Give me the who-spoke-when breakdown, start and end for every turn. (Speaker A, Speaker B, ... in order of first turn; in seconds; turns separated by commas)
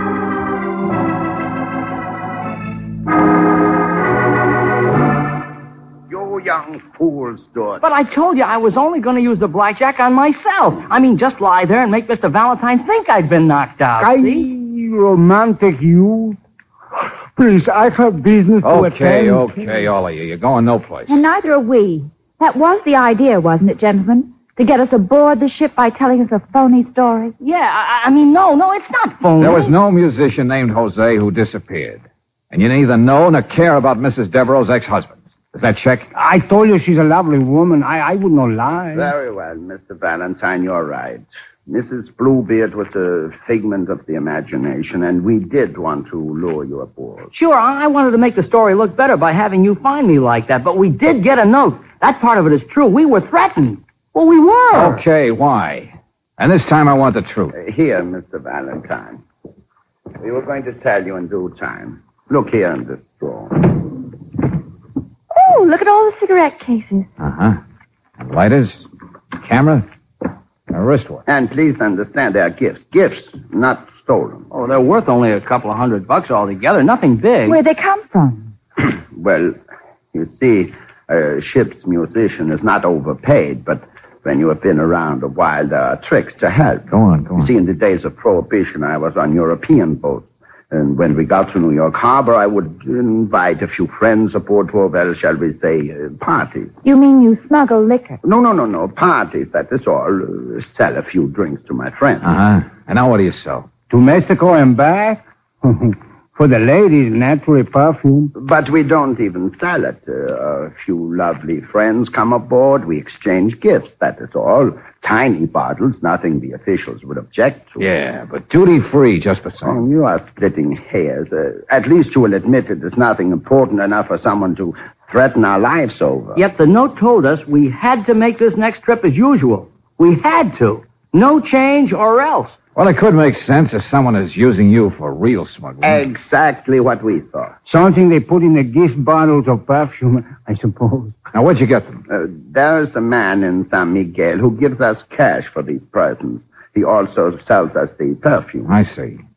Speaker A: 6.1-7.8, Speaker B: 7.8-14.5, Speaker C: 14.0-16.4, Speaker C: 17.4-19.8, Speaker D: 18.6-21.2, Speaker E: 21.1-27.3, Speaker B: 27.4-29.7, Speaker D: 29.4-36.1, Speaker C: 36.1-39.1, Speaker A: 38.9-47.3, Speaker B: 47.3-55.0, Speaker D: 54.7-57.5, Speaker A: 57.5-59.2, Speaker A: 60.2-63.9, Speaker E: 65.3-67.1, Speaker D: 67.2-67.6, Speaker D: 68.2-68.8, Speaker D: 69.3-69.8, Speaker D: 70.7-71.2, Speaker A: 71.3-74.5, Speaker B: 74.5-77.6, Speaker E: 77.4-78.5, Speaker A: 78.8-79.6, Speaker A: 80.1-96.7, Speaker D: 86.9-87.5, Speaker E: 96.8-98.2, Speaker A: 98.2-102.3, Speaker D: 102.2-103.7, Speaker C: 103.9-108.3, Speaker A: 108.3-117.8, Speaker D: 117.8-119.8, Speaker A: 119.6-126.4, Speaker B: 126.3-132.6, Speaker D: 132.8-136.0, Speaker A: 135.8-137.5, Speaker C: 137.7-141.2, Speaker D: 141.3-142.0, Speaker A: 142.1-148.7, Speaker D: 148.7-149.2